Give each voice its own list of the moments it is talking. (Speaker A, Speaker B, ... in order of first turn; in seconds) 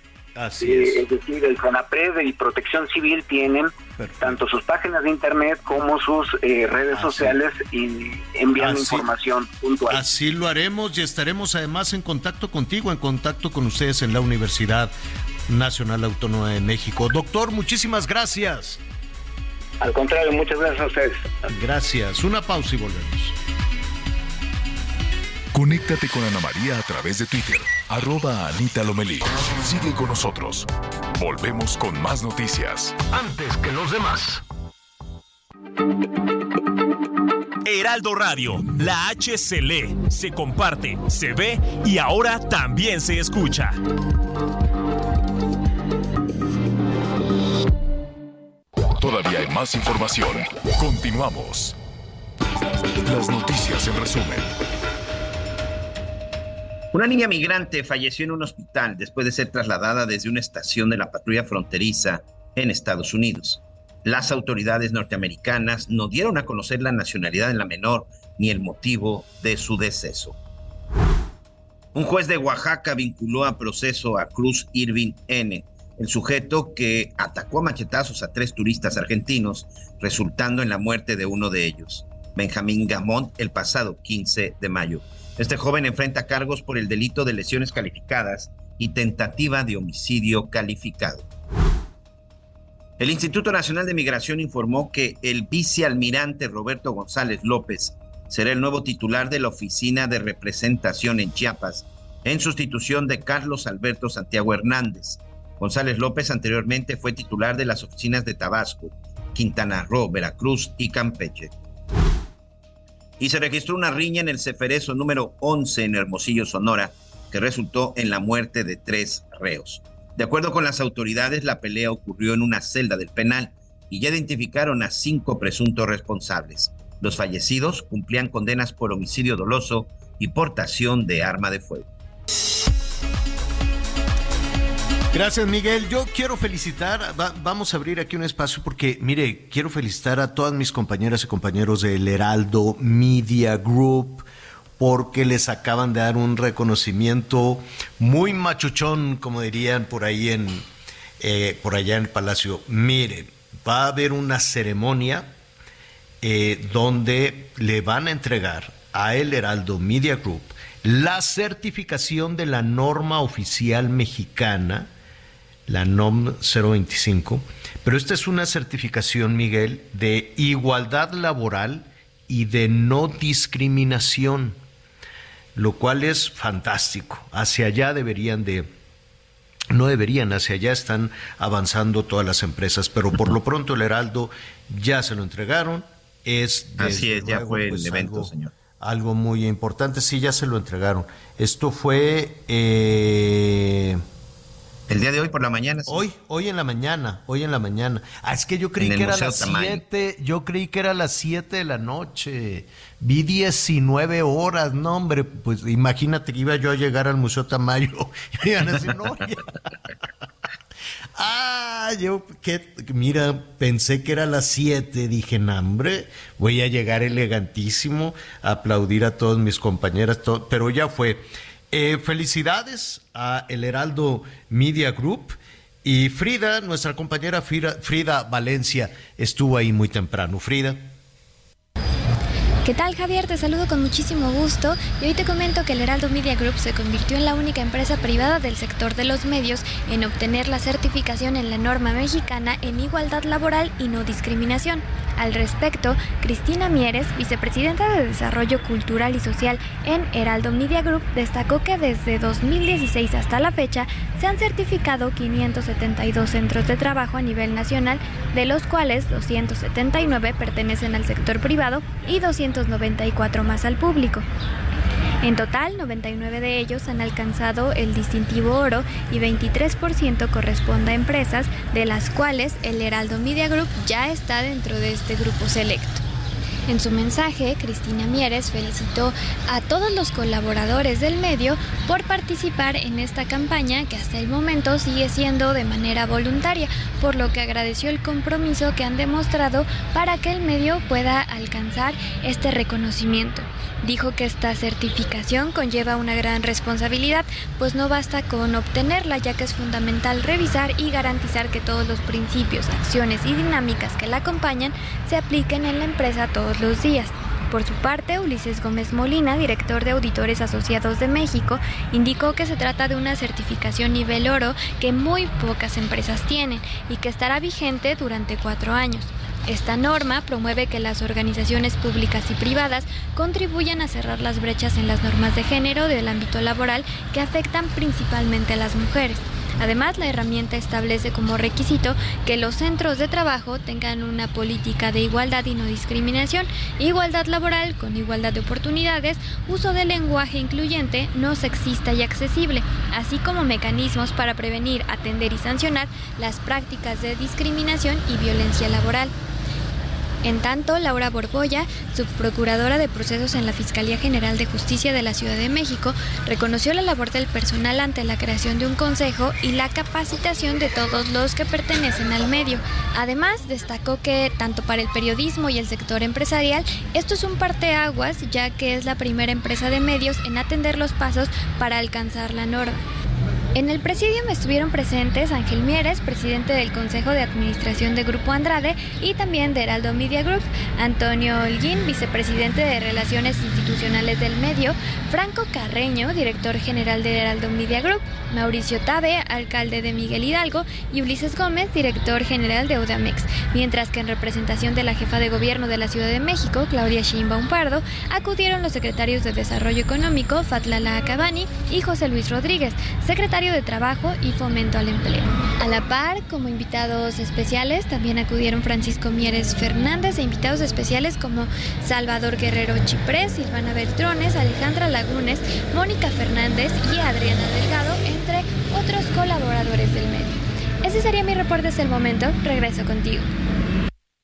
Speaker A: 0.3-1.0, 4.0-4.4, 6.9-7.3, 8.6-9.1, 9.9-14.9, 15.5-18.8, 21.5-23.4, 33.1-34.4, 135.1-144.2, 144.8-150.7, 151.2-155.3, 156.2-164.9, 165.7-174.6, 175.5-178.7, 179.7-194.0, 195.9-209.6, 211.2-230.9
Speaker B: 0.6-10.0, 19.8-21.5
Speaker C: 25.5-33.0, 49.0-51.8, 52.9-54.5
Speaker D: 37.6-43.8
Speaker E: 56.9-70.3, 71.9-91.2, 93.0-111.5, 113.2-131.8, 186.8-188.5, 194.9-196.0, 198.8-199.8
Speaker F: 232.6-264.2, 265.2-276.0, 276.7-349.1, 350.2-372.8, 373.5-423.3